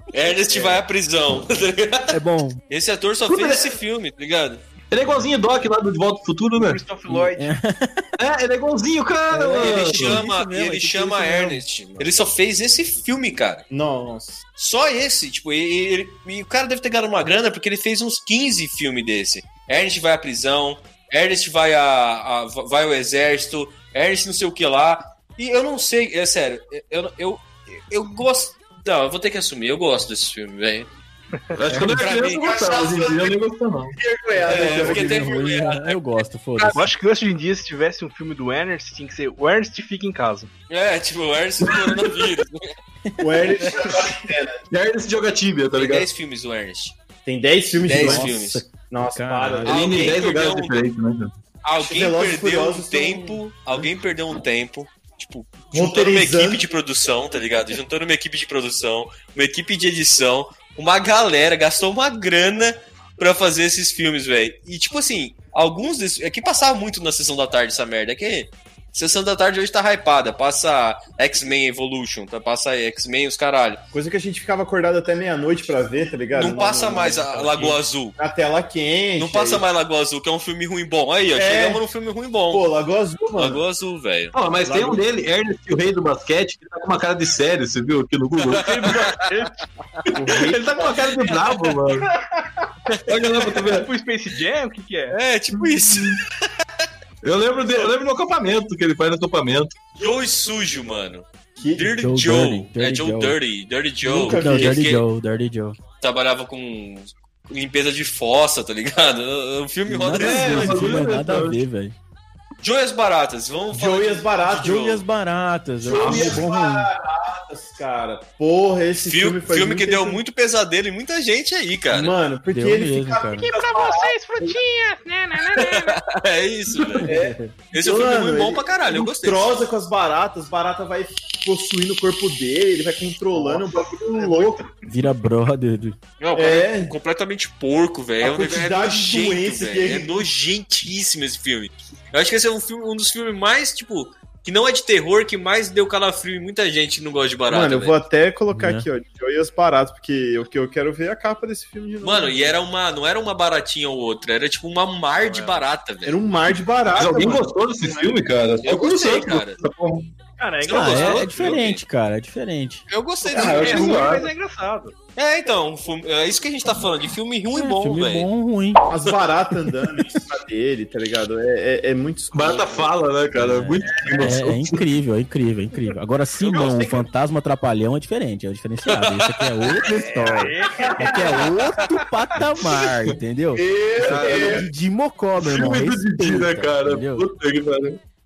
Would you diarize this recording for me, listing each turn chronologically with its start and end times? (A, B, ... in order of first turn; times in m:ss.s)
0:00.1-0:02.2 A
0:00.5-0:00.8 B
0:02.1-0:02.6 C
0:02.7-0:04.6 A
0:03.3-0:03.8 D
0:04.9-0:06.8 D
0:06.6-0:07.5 B
0:07.1-0:08.1 C
0:08.2-0:10.2 D
0:09.3-0:11.6 C
0:09.6-0:13.6 A
0:13.7-0:14.4 E
0:14.6-0:30.9 A
0:31.5-0:34.0 D
0:31.8-0:32.4 A
0:32.3-0:33.4 E
0:34.0-0:35.3 E
0:34.4-0:36.8 A
0:34.5-0:36.8 C
0:36.8-0:40.5 B
0:40.7-0:42.7 A
0:41.7-0:42.0 D
0:43.1-0:43.7 C
0:43.2-0:44.6 E
0:44.7-0:46.1 D
0:45.8-0:47.0 A
0:47.3-0:48.3 E
0:47.8-0:48.6 A
0:47.9-0:49.8 C
0:48.9-0:50.0 E
0:49.6-0:50.8 A
0:49.7-0:51.3 D
0:51.6-1:13.8 A
0:51.8-0:53.4 E
0:55.7-0:56.6 E
1:13.9-1:19.6 E
1:16.3-1:18.2 A
1:19.2-1:22.7 A
1:21.4-1:21.8 E
1:22.5-1:23.6 E
1:23.4-1:24.4 A
1:24.3-1:29.0 D
1:24.6-1:25.0 C
1:28.4-1:29.2 A
1:28.5-1:30.5 B
1:30.2-1:30.6 E
1:30.3-1:32.1 D
1:30.3-1:31.4 A
1:31.9-1:32.7 B
1:32.9-1:33.6 A
1:33.1-1:33.9 D
1:33.4-1:35.2 B
1:35.1-1:36.3 A
1:35.6-1:36.2 D
1:37.2-1:39.8 D
1:40.0-1:45.0 A
1:41.6-1:42.0 E
1:42.0-1:43.4 C
1:44.1-1:44.8 E
1:44.1-1:45.8 C
1:46.0-1:51.1 A
1:49.9-1:52.0 C
1:50.1-1:51.6 D
1:52.6-1:55.0 A
1:53.7-1:55.0 E
1:54.6-1:56.9 C
1:55.8-2:00.2 E
1:55.9-1:56.4 D
1:59.1-2:02.2 A
2:01.9-2:04.2 E
2:02.5-2:03.5 C
2:03.4-2:06.0 B
2:05.5-2:07.1 A
2:07.0-2:07.5 C
2:07.1-2:14.7 E
2:07.7-2:09.6 A
2:13.3-2:14.8 B
2:14.9-2:16.0 C
2:16.2-2:28.0 A
2:16.4-2:16.9 E
2:18.2-2:20.3 E
2:27.5-2:32.6 E
2:28.5-2:28.9 C
2:32.0-2:36.2 A
2:35.2-2:35.7 B
2:36.1-2:38.1 E
2:37.0-2:40.1 D
2:38.6-2:39.6 A
2:40.4-2:41.6 B
2:40.6-2:41.8 A
2:40.7-2:42.8 C
2:42.9-2:44.0 A
2:43.3-2:45.0 B
2:43.3-2:44.3 D
2:45.2-2:48.3 A
2:47.5-2:48.8 C
2:48.9-2:52.9 E
2:52.3-2:54.9 D
2:53.4-3:07.2 C
2:58.9-2:59.5 A
2:59.9-3:02.0 B
3:00.8-3:01.4 D
3:03.6-3:04.7 E
3:04.0-3:04.6 D
3:05.4-3:08.0 D